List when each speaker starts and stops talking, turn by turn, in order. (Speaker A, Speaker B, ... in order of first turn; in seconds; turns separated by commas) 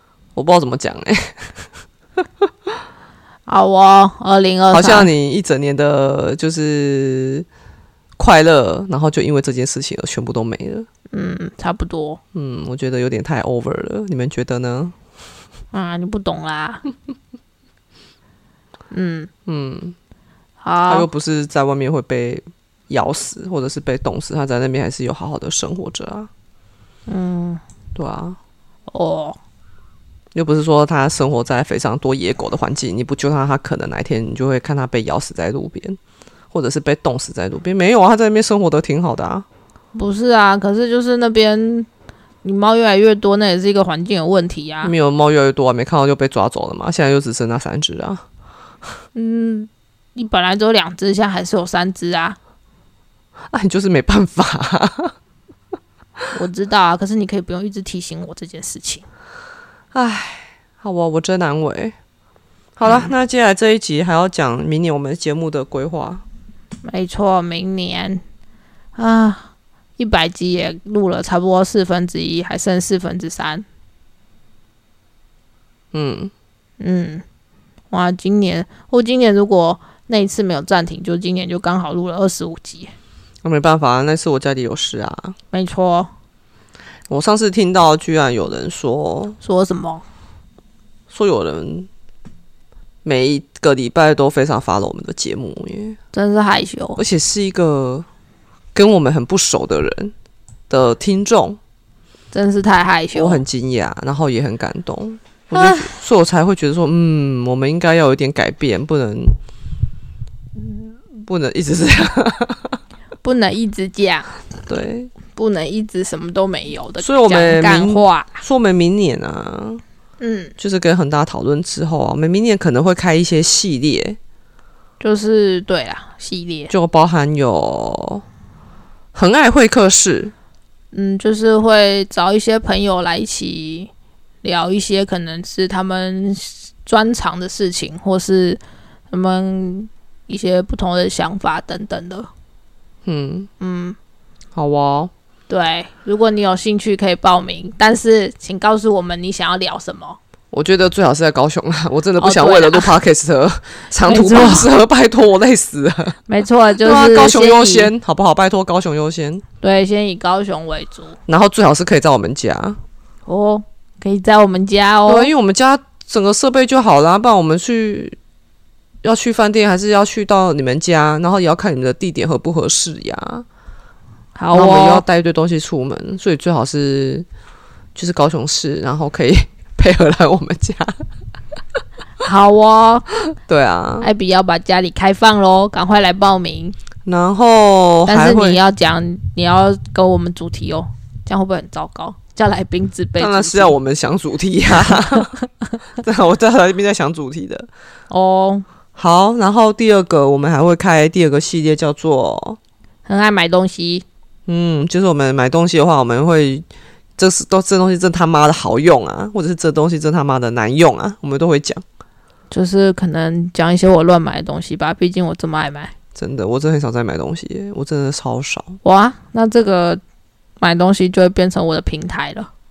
Speaker A: 0.3-1.7, Speaker B: 3.5-5.1, Speaker A: 4.7-7.5, Speaker A: 8.2-10.9, Speaker B: 11.1-12.2, Speaker A: 12.3-14.9, Speaker B: 15.7-16.8, Speaker B: 18.9-19.3, Speaker A: 19.5-20.0, Speaker B: 20.6-21.1, Speaker A: 20.9-26.3, Speaker B: 27.1-27.6, Speaker A: 28.0-28.4, Speaker B: 28.9-29.4, Speaker A: 30.3-36.0, Speaker A: 36.5-39.5, Speaker B: 39.9-41.9, Speaker B: 42.4-44.9, Speaker A: 44.8-48.2, Speaker B: 49.1-52.4, Speaker A: 53.5-55.1, Speaker B: 56.3-59.0, Speaker A: 59.9-62.0, Speaker A: 62.8-66.2, Speaker B: 66.8-68.2, Speaker B: 69.0-73.7, Speaker A: 75.9-76.3, Speaker B: 76.8-77.2, Speaker B: 77.9-82.9, Speaker A: 83.4-85.4, Speaker B: 85.5-86.1, Speaker A: 87.1-89.4, Speaker B: 89.4-90.0, Speaker A: 91.1-91.9, Speaker A: 93.0-96.0, Speaker B: 96.1-97.0, Speaker A: 97.0-98.1, Speaker A: 98.7-100.1, Speaker A: 100.7-101.6, Speaker B: 102.3-103.4, Speaker A: 103.1-109.3, Speaker B: 105.5-105.9, Speaker A: 111.2-112.8, Speaker B: 113.2-114.3, Speaker A: 114.7-115.1, Speaker B: 115.3-118.4, Speaker A: 117.0-119.8, Speaker B: 120.2-120.5, Speaker A: 120.6-124.2, Speaker B: 125.0-126.7, Speaker A: 126.7-128.2, Speaker A: 129.2-130.3, Speaker B: 130.9-133.9, Speaker B: 134.4-138.6, Speaker B: 139.1-142.3, Speaker A: 143.1-143.5, Speaker B: 143.6-144.0, Speaker A: 144.6-145.1, Speaker B: 145.5-150.2, Speaker A: 150.5-156.2, Speaker B: 152.2-152.9, Speaker B: 154.0-154.7, Speaker B: 156.3-157.9, Speaker A: 156.8-159.4, Speaker B: 159.6-161.2, Speaker A: 161.3-162.8, Speaker B: 163.3-165.3, Speaker A: 165.1-168.2, Speaker A: 169.0-173.5, Speaker B: 174.4-175.1, Speaker A: 174.5-177.3, Speaker A: 177.9-181.0, Speaker B: 182.2-183.1, Speaker A: 183.3-184.1, Speaker B: 184.0-186.8, Speaker A: 187.1-188.6, Speaker B: 188.1-193.8, Speaker A: 193.2-195.3, Speaker B: 194.8-195.5, Speaker A: 196.0-197.7, Speaker B: 198.1-198.7, Speaker A: 199.0-202.6, Speaker B: 203.1-204.1, Speaker A: 204.5-206.7, Speaker A: 207.2-211.8, Speaker B: 212.5-215.9, Speaker A: 216.2-218.8, Speaker B: 218.8-220.0, Speaker B: 220.6-222.5